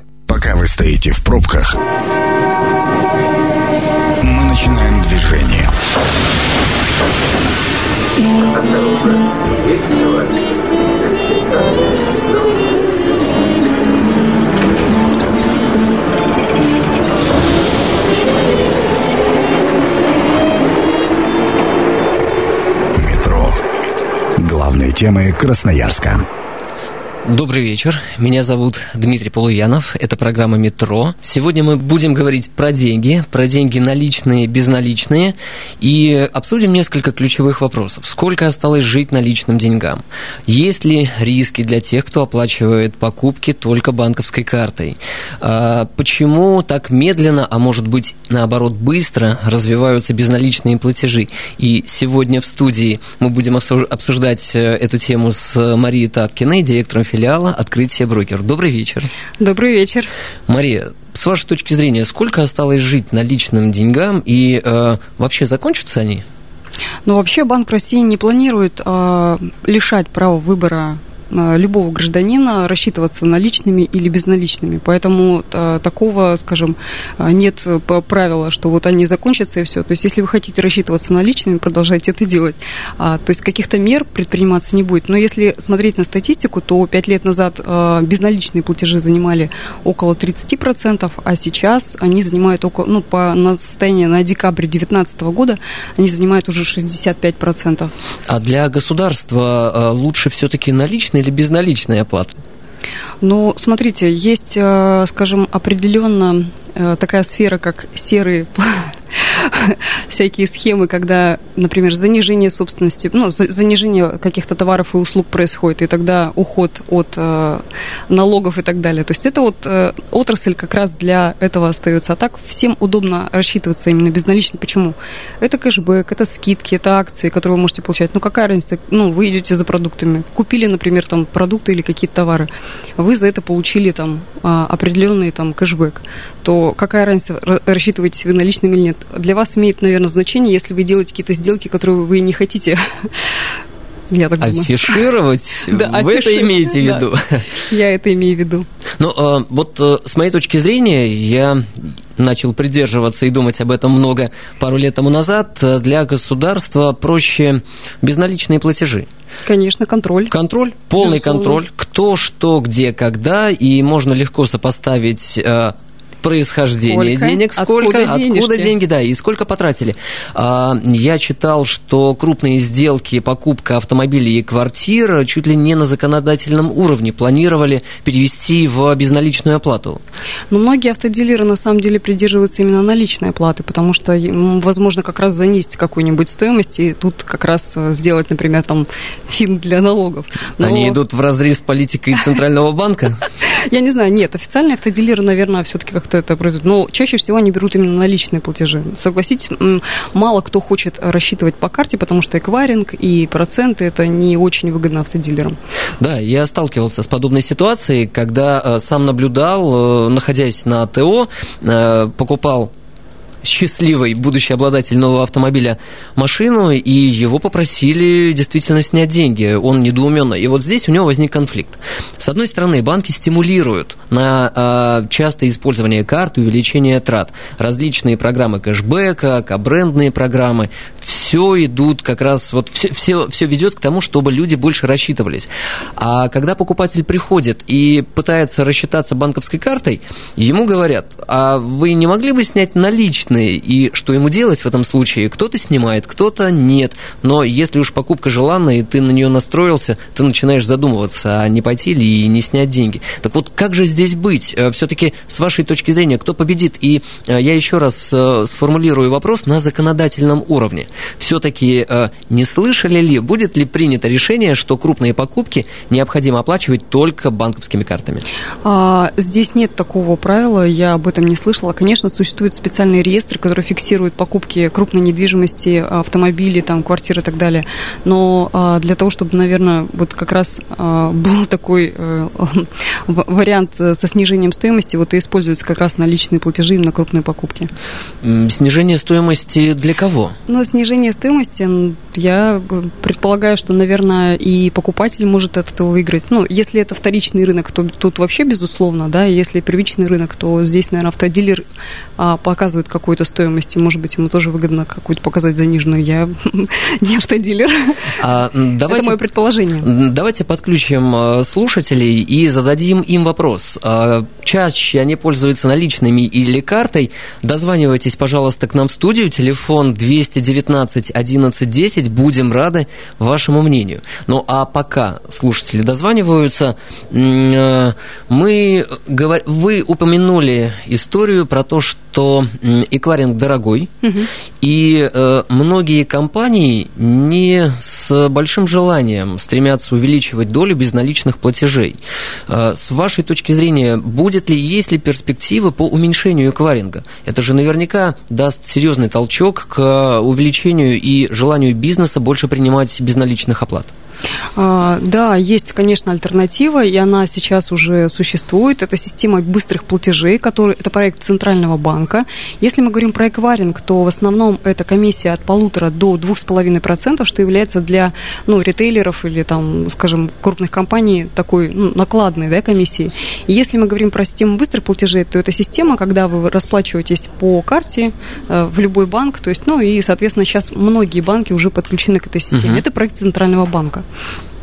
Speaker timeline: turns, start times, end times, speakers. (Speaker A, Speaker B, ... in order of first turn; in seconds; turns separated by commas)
Speaker A: 0.3-1.8, Speaker A: 4.2-5.7, Speaker A: 23.0-23.6, Speaker A: 24.4-26.2, Speaker B: 27.2-59.1, Speaker C: 59.4-60.1, Speaker B: 60.5-66.2, Speaker C: 67.1-97.9, Speaker B: 98.3-102.4, Speaker C: 103.2-143.3, Speaker C: 144.1-145.0, Speaker B: 144.4-147.5, Speaker C: 145.7-147.0, Speaker C: 147.6-148.7, Speaker B: 149.0-159.1, Speaker C: 159.5-160.3, Speaker B: 160.3-180.0, Speaker C: 161.0-161.6, Speaker C: 166.8-168.7, Speaker C: 180.5-191.0, Speaker B: 190.6-193.2, Speaker C: 193.4-205.6, Speaker B: 206.0-212.7, Speaker B: 213.4-268.2, Speaker C: 268.6-287.7, Speaker B: 288.2-290.4, Speaker C: 290.5-301.6, Speaker C: 302.2-308.1, Speaker B: 308.2-309.2, Speaker C: 308.9-309.9, Speaker B: 309.8-333.9, Speaker C: 334.0-334.3, Speaker B: 334.6-353.9, Speaker C: 354.6-384.1, Speaker B: 382.5-382.8